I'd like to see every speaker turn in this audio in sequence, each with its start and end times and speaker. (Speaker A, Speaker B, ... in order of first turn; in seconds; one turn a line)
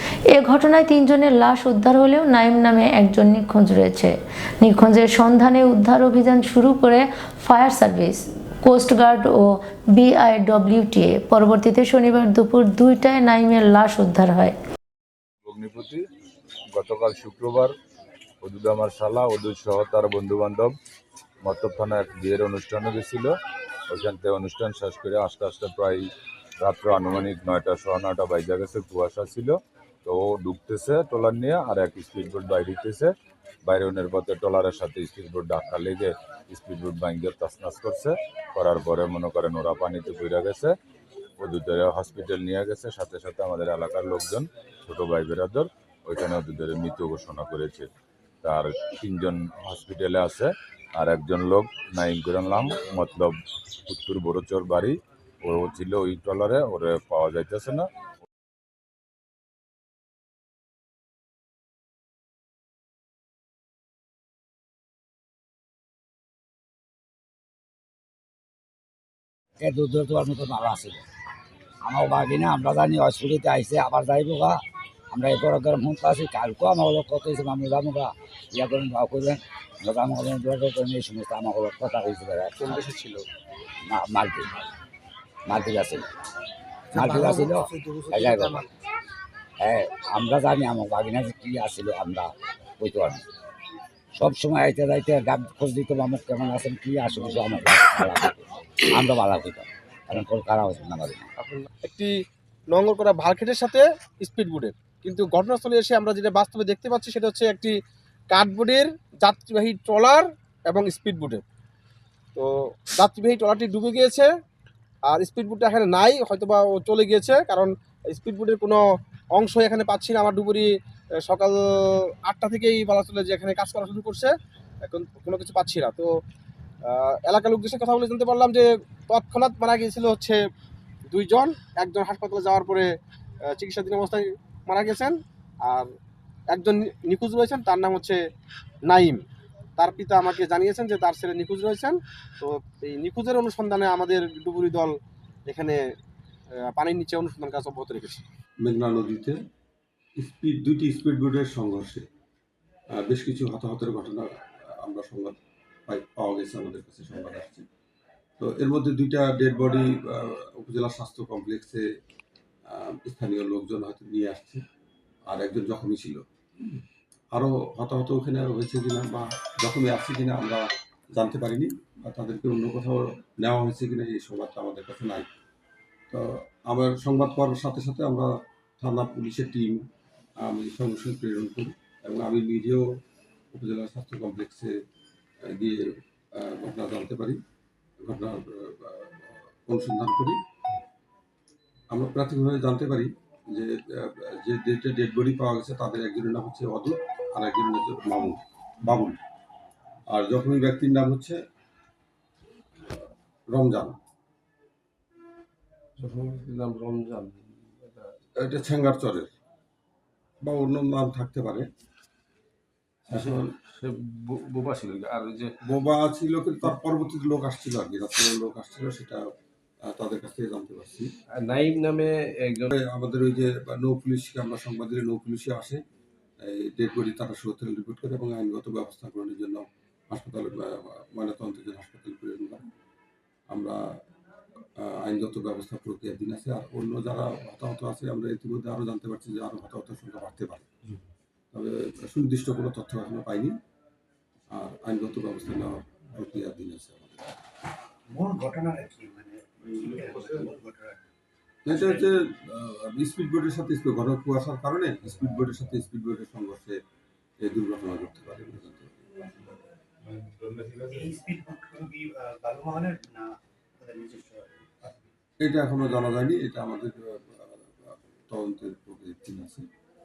Speaker A: 0.3-14.6
Speaker B: 15.4-16.0
Speaker B: 16.7-17.7
Speaker B: 18.4-20.7
Speaker B: 21.4-23.3
Speaker B: 23.9-33.1
Speaker B: 33.6-40.7
Speaker B: 41.4-47.9
Speaker B: 48.4-57.9
Speaker C: 69.6-71.0
Speaker C: 71.8-82.8
Speaker D: 82.6-83.2
Speaker C: 83.8-84.5
Speaker C: 85.5-86.1
Speaker C: 86.9-88.6
Speaker D: 87.1-88.5
Speaker C: 89.6-93.2
Speaker C: 94.2-101.3
Speaker E: 101.4-101.7
Speaker D: 101.8-102.1
Speaker D: 102.7-107.7
Speaker D: 108.3-111.4
Speaker D: 112.3-114.3
Speaker D: 115.1-120.7
Speaker D: 121.2-124.3
Speaker D: 124.8-126.1
Speaker D: 126.8-130.4
Speaker D: 131.1-132.9
Speaker D: 133.5-135.9
Speaker D: 136.5-138.2
Speaker D: 138.9-139.2
Speaker D: 139.8-145.8
Speaker D: 146.7-148.2
Speaker F: 148.6-149.4
Speaker F: 150.2-152.1
Speaker F: 152.9-155.3
Speaker F: 155.9-157.7
Speaker F: 158.4-161.8
Speaker F: 162.7-164.6
Speaker F: 165.3-166.2
Speaker F: 167.3-175.3
Speaker F: 176.1-179.8
Speaker F: 180.4-182.8
Speaker F: 183.5-184.7
Speaker F: 185.4-187.4
Speaker F: 188.0-190.4
Speaker F: 191.9-199.2
Speaker F: 200.1-201.4
Speaker F: 203.5-204.0
Speaker E: 206.0-208.1
Speaker F: 208.4-209.3
Speaker F: 210.4-211.7
Speaker E: 213.1-215.6
Speaker F: 213.1-213.5
Speaker F: 215.6-219.2
Speaker F: 219.8-221.1
Speaker E: 221.3-222.7
Speaker F: 222.8-225.8
Speaker F: 226.4-232.7
Speaker F: 233.5-233.8
Speaker F: 234.8-240.7
Speaker F: 241.5-243.5
Speaker F: 244.5-247.4
Speaker G: 248.1-251.1
Speaker E: 249.6-250.0
Speaker F: 251.6-256.8
Speaker G: 251.7-252.0
Speaker F: 257.4-259.1
Speaker E: 260.4-261.2
Speaker G: 260.9-265.1
Speaker F: 265.4-269.6